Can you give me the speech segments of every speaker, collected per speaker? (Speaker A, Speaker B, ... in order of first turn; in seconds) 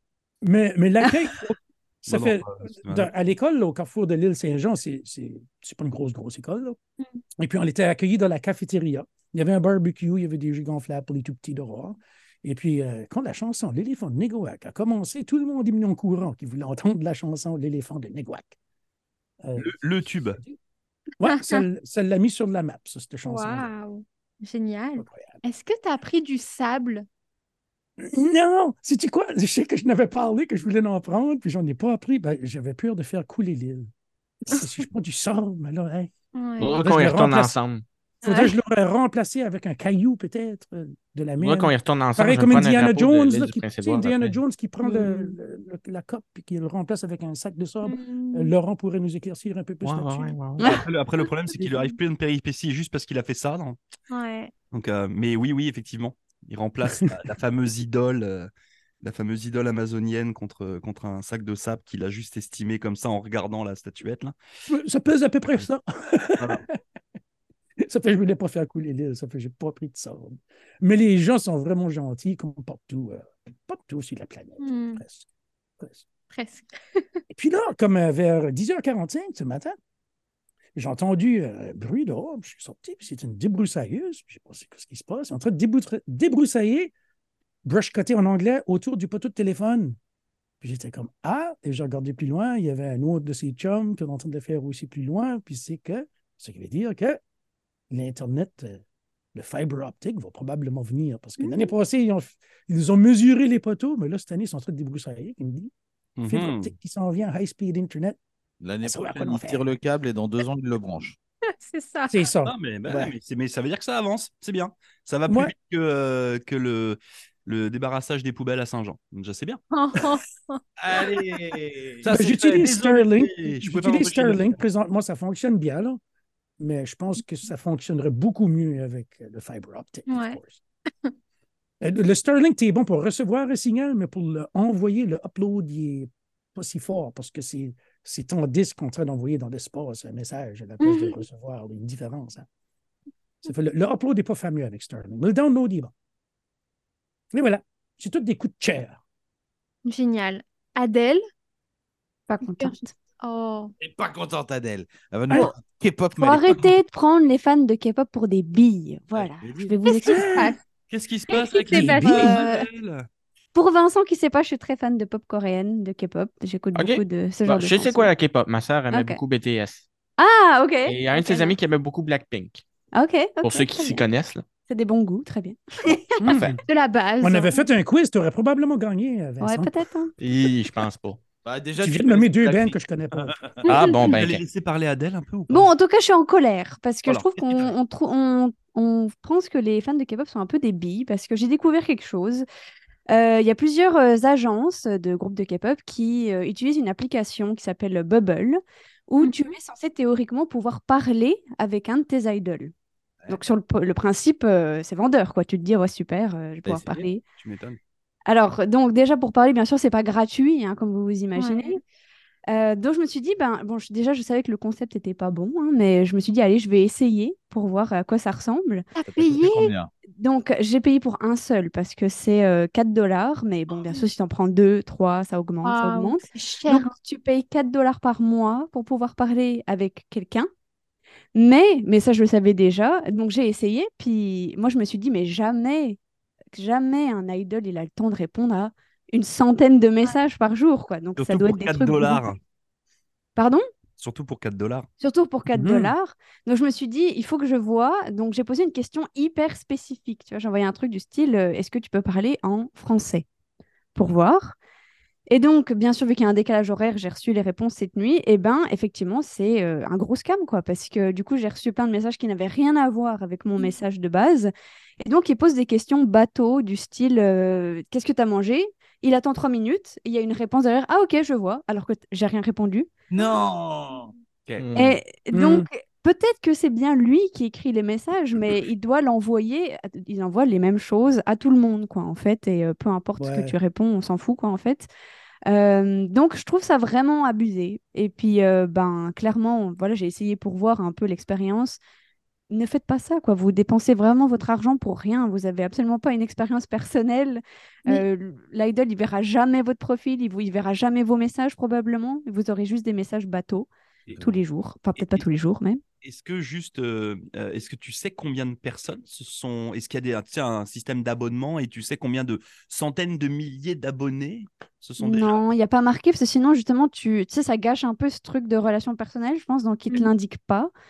Speaker A: 0.4-6.8, 7.4-18.6, 19.4-20.6, 21.2-23.7, 25.0-25.4, 28.0-33.9, 34.4-36.1, 36.7-37.5, 38.2-50.4, 64.7-66.8, 67.8-75.3, 75.8-76.0, 77.3-79.8, 80.7-86.9, 87.6-90.0, 90.6-97.2, 97.9-98.8, 99.3-105.7, 106.3-108.2, 108.8-109.6, 112.1-113.1, 115.3-115.5, 122.1-126.0, 126.6-130.6, 131.8-142.5, 143.4-145.9, 147.3-149.0, 159.9-160.6, 161.7-162.4, 176.2-176.6, 177.2-179.7, 181.8-183.4, 245.5-245.9, 275.3-275.7, 283.2-283.6
Speaker B: 2.1-3.1, 19.6-20.4, 50.6-53.8, 54.7-58.5, 59.0-64.3, 106.2-106.7, 112.4-119.6, 122.0-124.6, 160.9-163.1, 183.6-185.7, 187.1-187.7, 207.4-207.8, 241.2-242.4, 244.0-244.9, 304.1-304.4, 304.9-305.3, 306.0-315.4
Speaker C: 21.2-21.6, 23.2-27.1, 36.3-36.8, 38.2-38.5, 44.8-45.3, 47.8-48.5, 54.1-54.5, 74.6-75.0, 76.3-77.2, 111.6-112.2, 119.7-120.6, 130.1-130.4, 140.8-141.2, 149.8-151.2, 152.4-153.7, 159.8-160.6, 161.3-162.2, 176.7-177.7, 183.6-184.0, 199.2-199.5, 211.3-211.8, 218.9-219.7, 225.6-226.9
Speaker D: 36.6-37.8, 41.4-44.4, 49.8-50.7, 166.7-169.8, 170.8-172.6, 173.4-174.4, 176.2-176.6, 180.2-181.2, 183.7-184.4, 274.6-275.0
Speaker E: 50.6-50.8, 152.3-152.9, 156.2-160.4, 162.1-162.7, 163.5-168.1, 168.9-169.2, 170.2-171.5, 172.9-174.0, 174.7-176.2, 179.4-180.1, 185.5-192.4, 193.1-202.7, 203.3-207.2, 208.3-211.8, 212.5-218.9, 220.1-230.5, 231.3-236.0, 236.5-242.2, 243.3-243.6, 245.0-253.2, 253.9-254.6, 255.3-272.9, 274.7-284.9, 285.5-291.8, 292.5-305.8, 315.0-320.7
Speaker F: 108.6-111.2, 120.8-122.1, 153.8-156.7, 159.2-159.7, 181.4-182.8, 183.4-183.6, 206.6-207.1, 219.1-219.9, 273.1-274.1